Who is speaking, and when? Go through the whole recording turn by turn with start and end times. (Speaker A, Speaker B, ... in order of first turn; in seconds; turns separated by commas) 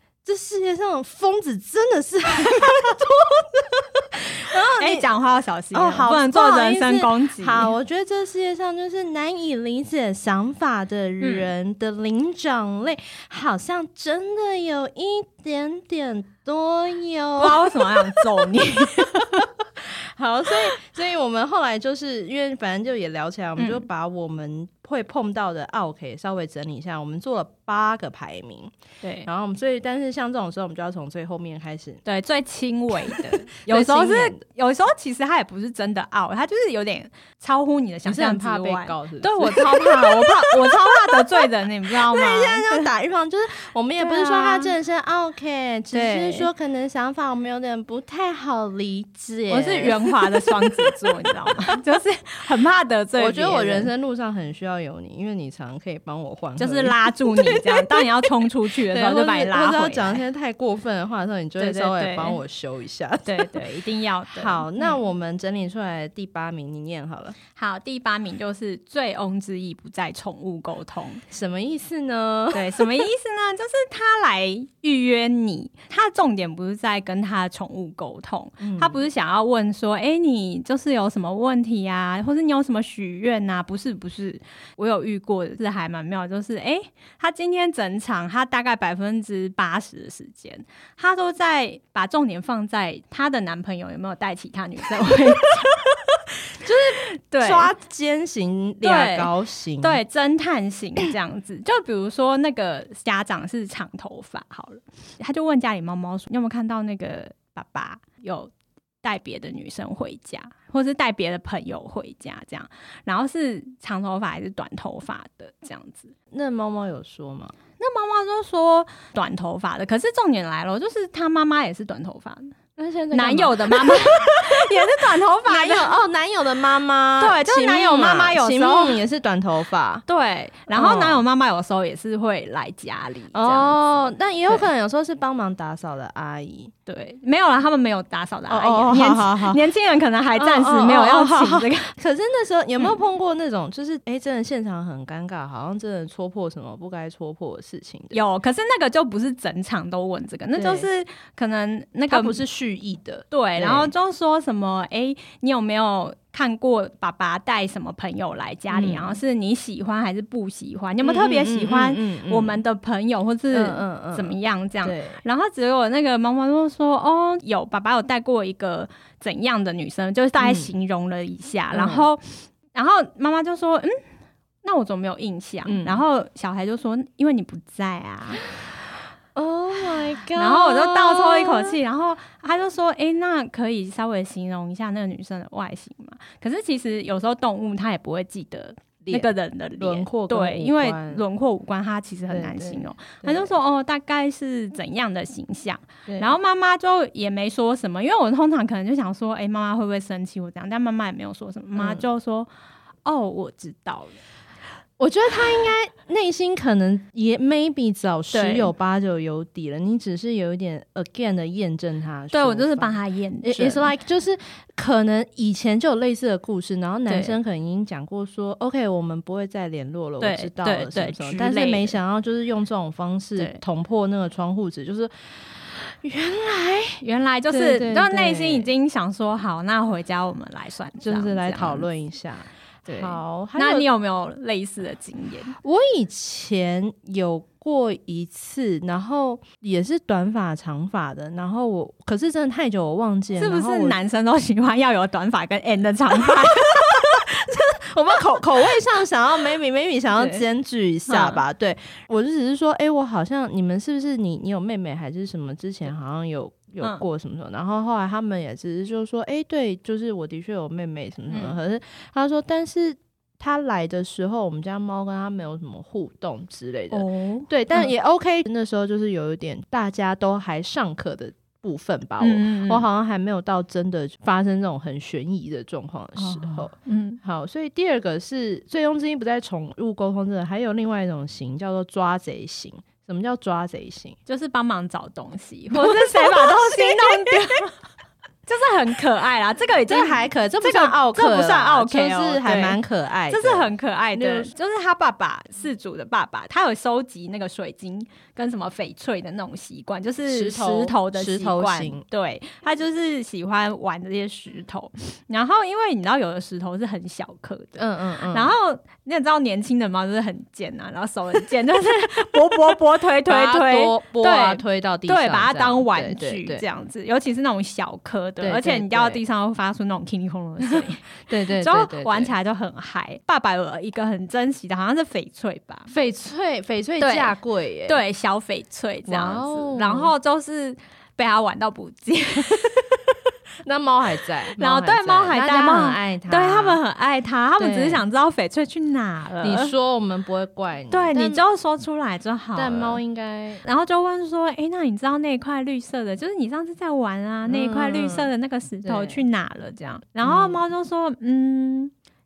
Speaker A: 0.2-5.1, Speaker B: 4.8-7.7, Speaker A: 5.7-28.7, Speaker B: 11.2-11.5, Speaker B: 17.4-19.4, Speaker B: 23.6-23.8, Speaker B: 29.0-29.3, Speaker A: 29.2-32.0, Speaker B: 32.0-42.9, Speaker A: 33.1-34.4, Speaker A: 38.0-51.7, Speaker B: 44.0-44.7, Speaker B: 45.9-46.5, Speaker B: 49.5-53.9, Speaker A: 53.2-63.6, Speaker B: 56.6-60.2, Speaker B: 61.6-62.4, Speaker B: 63.2-65.0, Speaker A: 64.3-67.4, Speaker B: 67.5-71.2, Speaker A: 71.3-72.9, Speaker B: 72.5-95.7, Speaker A: 78.6-79.0, Speaker A: 95.8-100.0, Speaker B: 96.7-97.7, Speaker B: 98.8-108.5, Speaker B: 109.0-116.1, Speaker A: 116.3-117.5, Speaker B: 117.8-122.5, Speaker A: 122.8-130.0, Speaker B: 123.1-126.0, Speaker B: 127.2-129.0, Speaker B: 130.1-134.7, Speaker A: 130.7-131.2, Speaker A: 133.3-136.7, Speaker B: 136.8-141.9, Speaker A: 138.5-139.6, Speaker A: 140.3-148.2, Speaker B: 148.1-152.4, Speaker A: 150.5-150.9, Speaker A: 152.1-153.9, Speaker B: 153.3-173.9, Speaker A: 158.7-159.2, Speaker A: 161.0-162.6, Speaker A: 163.5-165.2, Speaker A: 170.4-170.7, Speaker A: 171.7-172.1, Speaker B: 174.6-178.4, Speaker A: 175.6-176.0, Speaker A: 179.3-181.8, Speaker B: 180.3-202.5, Speaker A: 189.0-191.2, Speaker A: 192.3-193.5, Speaker A: 196.1-196.3, Speaker A: 201.8-202.0, Speaker B: 203.0-204.2, Speaker A: 205.0-228.7, Speaker B: 208.3-208.7, Speaker B: 212.3-213.9, Speaker B: 217.1-217.3, Speaker B: 220.2-222.0, Speaker B: 227.0-231.9, Speaker A: 231.0-233.9, Speaker B: 232.9-235.6, Speaker A: 235.6-244.0, Speaker B: 243.4-246.8, Speaker A: 246.1-284.1, Speaker B: 250.2-250.4, Speaker B: 251.1-251.4, Speaker B: 266.9-267.9, Speaker B: 272.2-272.8, Speaker B: 276.2-277.2, Speaker B: 284.2-287.7, Speaker A: 285.7-287.3, Speaker B: 288.5-325.9, Speaker A: 289.9-294.5, Speaker A: 300.2-302.0, Speaker A: 307.8-308.5, Speaker A: 313.2-316.6, Speaker A: 318.4-319.2, Speaker A: 320.7-322.3, Speaker A: 325.9-328.0, Speaker B: 327.0-327.3, Speaker B: 327.9-332.9, Speaker A: 329.1-330.1, Speaker A: 333.6-336.8, Speaker B: 334.6-339.7, Speaker A: 337.6-338.0, Speaker A: 339.4-341.4, Speaker B: 340.9-343.0, Speaker A: 342.6-343.6, Speaker B: 343.6-351.9, Speaker A: 347.4-348.3, Speaker A: 348.8-349.2, Speaker A: 350.2-350.6